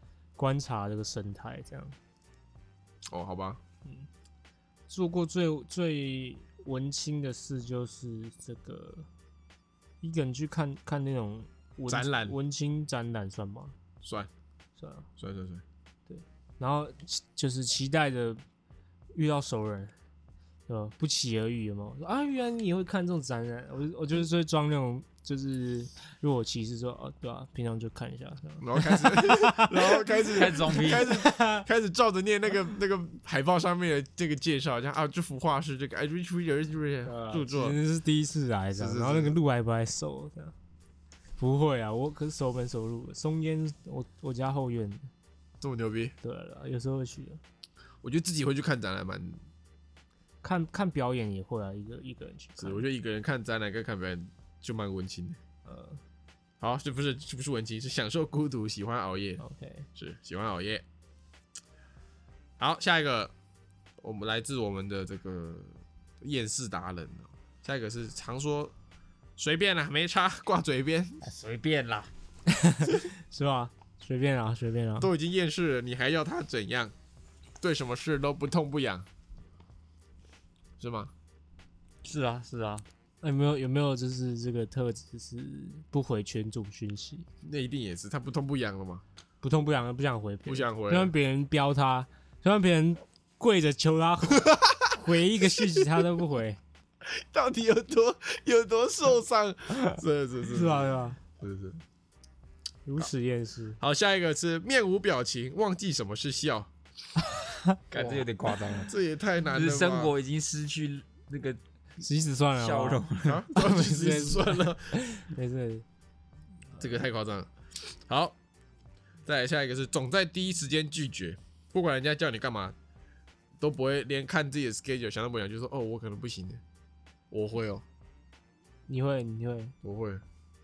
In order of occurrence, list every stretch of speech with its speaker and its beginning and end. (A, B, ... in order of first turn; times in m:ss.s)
0:00.4-0:02.0 A
0:03.1-0:03.6 B
0:04.9-0:09.1 A
0:10.0-0:13.7 A
0:11.9-0:12.4 B
0:14.0-0:14.3 B
0:14.8-0:15.1 A
0:15.2-0:15.6 B
0:16.1-0:18.4 A
0:19.2-0:19.9 A
0:20.7-0:31.7 A
0:28.6-0:37.8 B
0:30.3-0:31.1 C
0:37.0-0:40.5 A
0:38.8-0:39.4 B
0:41.4-0:45.1 A
0:45.6-0:46.2 B
0:46.2-0:47.4 A
0:48.0-0:49.4 B
0:50.4-0:52.8 A
0:52.6-0:55.4 B
0:55.6-0:56.0 A
0:56.6-0:59.4 B
0:59.4-0:59.9 A
1:00.0-1:00.8 B
1:02.6-1:03.3 B
1:04.0-1:08.7 B
1:09.4-1:11.2 B
1:11.2-1:12.1 C
1:12.5-1:15.1 A
1:15.0-1:16.9 B
1:17.6-1:19.1 B
1:20.8-1:21.1 B
1:22.0-1:22.8 C
1:23.2-1:27.3 A
1:27.4-1:29.0 B
1:29.4-1:36.6 A
1:30.5-1:31.1 B
1:34.3-1:36.0 B
1:37.0-1:41.8 B
1:40.5-1:41.2 A
1:42.9-1:43.8 A
1:43.8-1:46.7 B
1:47.9-1:48.9 C
1:48.0-1:48.2 B
1:48.9-1:50.1 B
1:49.5-1:51.6 C
1:52.0-1:55.8 A
1:52.5-1:53.4 C
1:53.2-1:55.0 B
1:56.8-1:58.4 B
1:59.3-2:02.8 B
2:03.6-2:06.6 B
2:07.3-2:07.8 B
2:08.9-2:09.8 A
2:09.8-2:10.2 B